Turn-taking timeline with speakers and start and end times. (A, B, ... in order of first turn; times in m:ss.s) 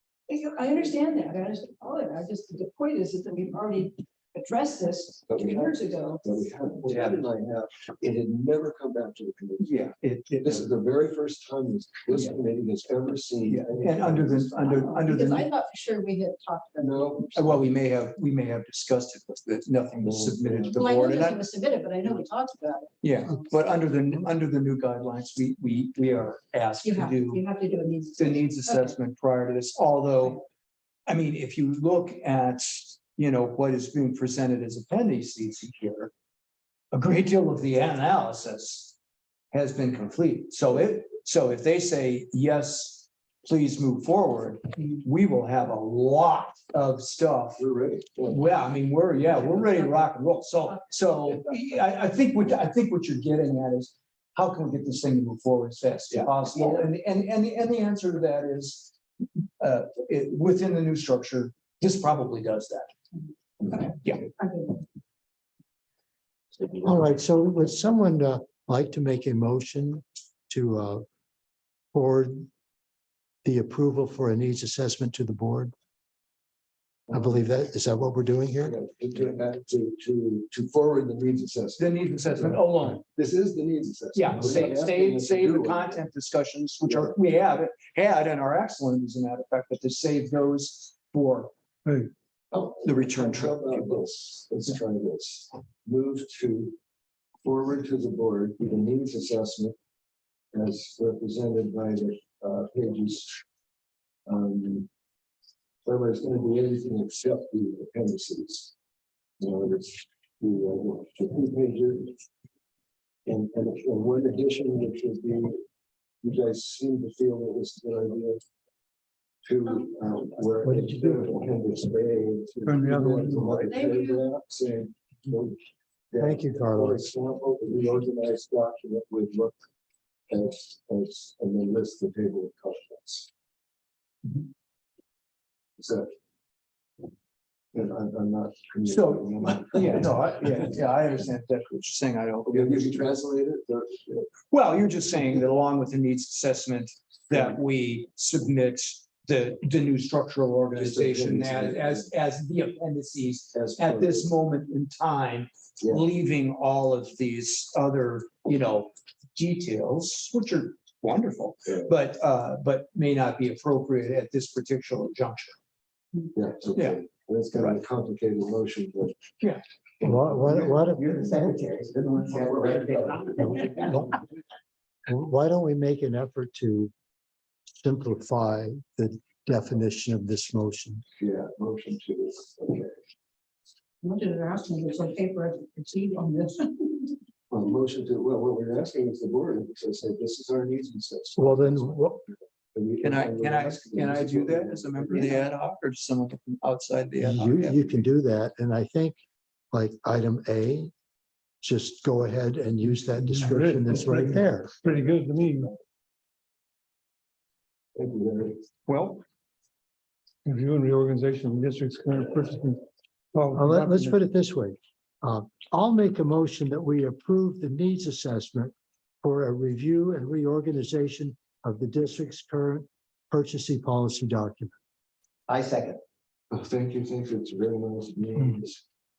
0:00.3-0:06.2 A
0:05.3-0:14.7 B
0:06.9-0:07.2 C
0:09.6-0:10.7 C
0:13.5-0:15.5 C
0:14.6-0:17.4 A
0:16.8-0:17.7 B
0:17.4-0:21.4 C
0:20.0-0:20.8 B
0:20.8-0:23.8 A
0:23.0-0:27.4 C
0:26.8-0:29.0 A
0:28.2-0:30.4 C
0:31.1-0:36.1 C
0:36.9-0:39.0 C
0:39.5-0:47.6 C
0:47.6-0:48.4 B
0:48.3-0:58.9 C
0:49.3-0:50.1 A
0:50.7-0:51.4 A
0:59.6-1:02.9 C
1:04.4-1:04.8 A
1:06.8-1:11.1 D
1:11.9-1:12.5 D
1:13.4-1:15.7 D
1:17.1-1:18.8 D
1:18.6-1:26.0 B
1:21.8-1:23.0 C
1:24.2-1:31.5 C
1:26.8-1:27.2 B
1:31.9-1:32.1 E
1:32.5-1:36.8 B
1:32.8-1:34.1 C
1:37.4-1:39.8 B
1:40.5-1:43.4 B
1:44.3-1:44.9 B
1:45.8-1:48.7 B
1:49.4-1:52.2 B
1:53.3-1:55.6 B
1:56.2-1:58.4 B
1:59.5-2:09.6 B
2:00.6-2:01.2 D
2:02.7-2:03.7 E
2:03.7-2:04.2 A
2:06.2-2:07.0 D
2:10.3-2:13.3 B
2:15.8-2:16.1 B
2:17.7-2:20.1 B
2:18.8-2:23.0 C
2:22.5-2:24.3 B
2:24.5-2:45.6 C
2:30.7-2:32.1 B
2:33.5-2:34.3 B
2:35.8-2:36.1 B
2:46.4-2:49.2 B
2:50.0-2:50.5 B
2:50.0-2:51.6 D
2:50.4-2:54.2 C
2:51.4-2:53.7 F
2:52.9-2:53.7 B
2:55.1-2:56.9 D
2:57.8-3:01.0 D
3:01.2-3:03.0 B
3:04.0-3:07.2 A
3:07.5-3:15.4 B
3:11.4-3:12.2 D
3:13.0-3:18.0 C
3:17.2-3:19.2 D
3:19.7-3:20.9 D
3:21.6-3:24.7 D
3:22.9-3:25.7 E
3:28.0-3:28.6 B
3:28.9-3:29.2 E
3:30.4-3:32.8 E
3:33.3-3:34.2 E
3:33.5-3:44.7 D
3:45.5-3:46.0 F
3:46.5-3:48.8 B